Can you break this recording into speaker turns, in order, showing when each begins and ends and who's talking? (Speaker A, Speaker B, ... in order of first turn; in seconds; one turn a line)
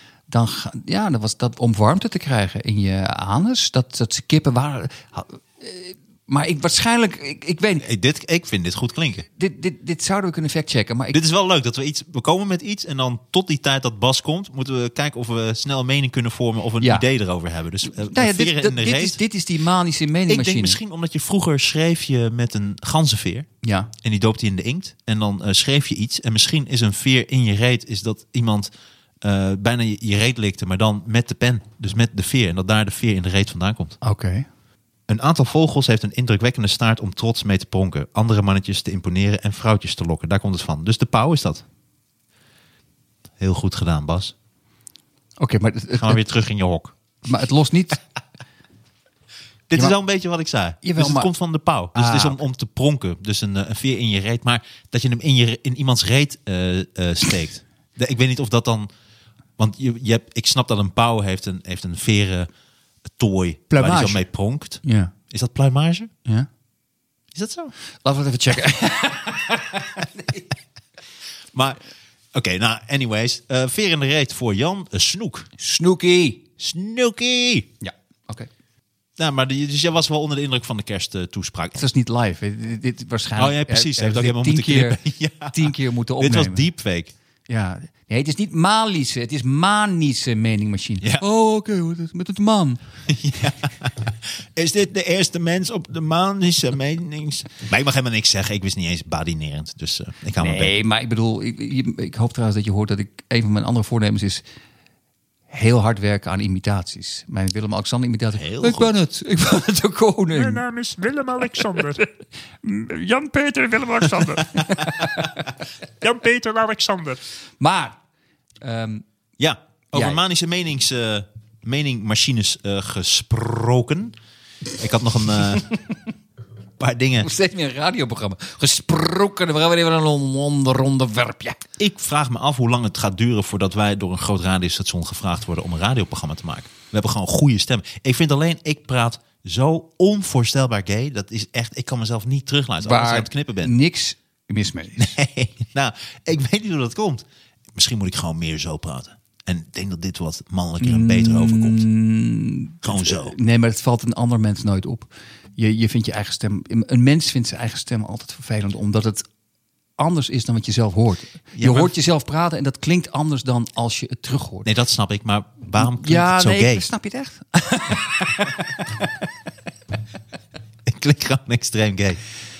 Speaker A: 0.3-7.8
Speaker B: 7.8-9.3
Speaker A: 9.4-11.2
Speaker B: 11.1-19.2
Speaker A: 16.8-17.1
Speaker A: 17.8-20.8
Speaker B: 20.3-23.5
Speaker A: 23.6-23.9
Speaker B: 24.0-34.0
Speaker A: 34.0-34.5
Speaker B: 35.1-41.6
Speaker B: 43.4-44.3
Speaker A: 45.4-46.2
Speaker B: 46.0-47.0
Speaker A: 47.2-48.0
Speaker B: 49.7-58.9
Speaker A: 50.8-51.3
Speaker A: 51.9-52.4
Speaker B: 59.6-62.5
Speaker B: 63.1-66.1
Speaker A: 63.7-64.3
Speaker A: 64.8-65.1
Speaker B: 67.3-67.7
Speaker A: 68.0-70.5
Speaker B: 71.5-71.8
Speaker B: 72.3-75.5
Speaker A: 75.6-76.4
Speaker B: 76.6-77.7
Speaker A: 77.8-78.5
Speaker B: 79.2-81.9
Speaker A: 81.8-85.0
Speaker B: 83.4-87.1
Speaker A: 85.5-86.7
Speaker A: 87.5-92.8
Speaker B: 93.1-100.7
Speaker A: 100.4-104.4
Speaker A: 105.5-110.7
Speaker B: 108.3-109.0
Speaker C: 110.3-112.1
Speaker C: 112.8-115.3
Speaker A: 114.1-115.5
Speaker C: 116.0-117.2
Speaker A: 117.6-118.0
Speaker A: 118.6-119.0
Speaker B: 119.4-124.2
Speaker A: 119.9-120.2
Speaker B: 124.7-125.8
Speaker B: 126.8-127.3
Speaker A: 127.2-131.6
Speaker B: 131.8-143.8
Speaker A: 142.8-145.1
Speaker B: 145.0-151.9
Speaker A: 150.8-159.2
Speaker B: 152.8-153.3
Speaker A: 160.0-164.7
Speaker B: 161.6-161.9
Speaker B: 164.7-166.9
Speaker A: 165.8-169.1
Speaker B: 170.8-172.2